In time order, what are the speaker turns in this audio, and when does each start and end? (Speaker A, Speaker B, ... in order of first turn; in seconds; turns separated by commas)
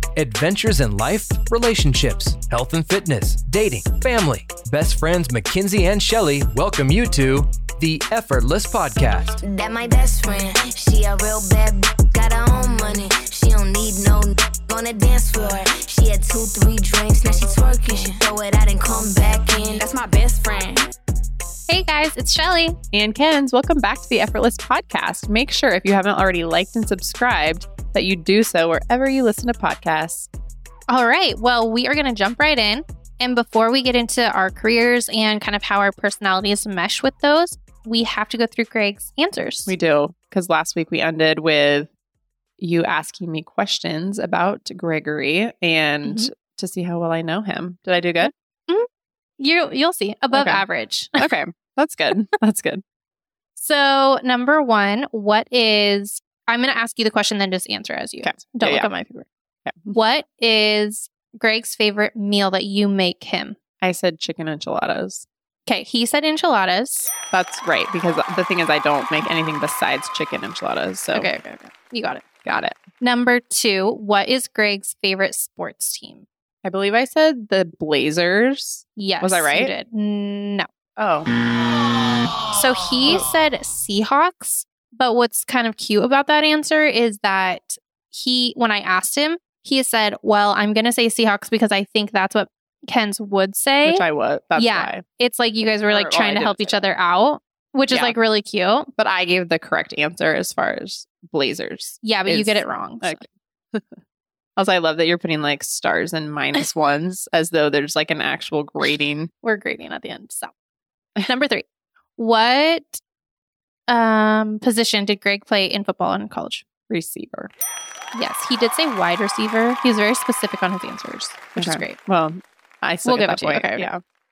Speaker A: 0.1-9.4, Speaker B: 9.4-20.9, Speaker C: 21.7-22.8, Speaker D: 22.9-30.3, Speaker C: 30.9-39.7, Speaker D: 39.7-41.9, Speaker D: 42.6-48.3, Speaker C: 46.0-46.3, Speaker C: 48.2-48.9, Speaker C: 49.4-51.3, Speaker D: 50.3-50.6, Speaker D: 51.2-52.8, Speaker C: 53.5-59.3, Speaker D: 58.2-58.9, Speaker D: 59.6-59.9, Speaker C: 59.9-63.5, Speaker D: 63.8-65.2, Speaker C: 65.7-67.1, Speaker D: 67.3-71.3, Speaker C: 71.1-72.2, Speaker D: 72.4-72.8, Speaker C: 73.0-76.2, Speaker D: 76.6-79.7, Speaker C: 79.0-80.7, Speaker D: 81.0-81.3, Speaker C: 82.5-98.9, Speaker D: 93.8-95.0, Speaker D: 95.9-96.8, Speaker D: 97.9-98.2, Speaker D: 99.0-104.0, Speaker C: 102.0-103.2, Speaker D: 104.6-109.3, Speaker C: 109.4-110.5, Speaker C: 111.2-111.7, Speaker C: 112.2-113.0, Speaker C: 113.9-116.7, Speaker D: 116.9-117.5, Speaker C: 118.1-122.0, Speaker D: 121.5-124.0, Speaker C: 123.0-123.9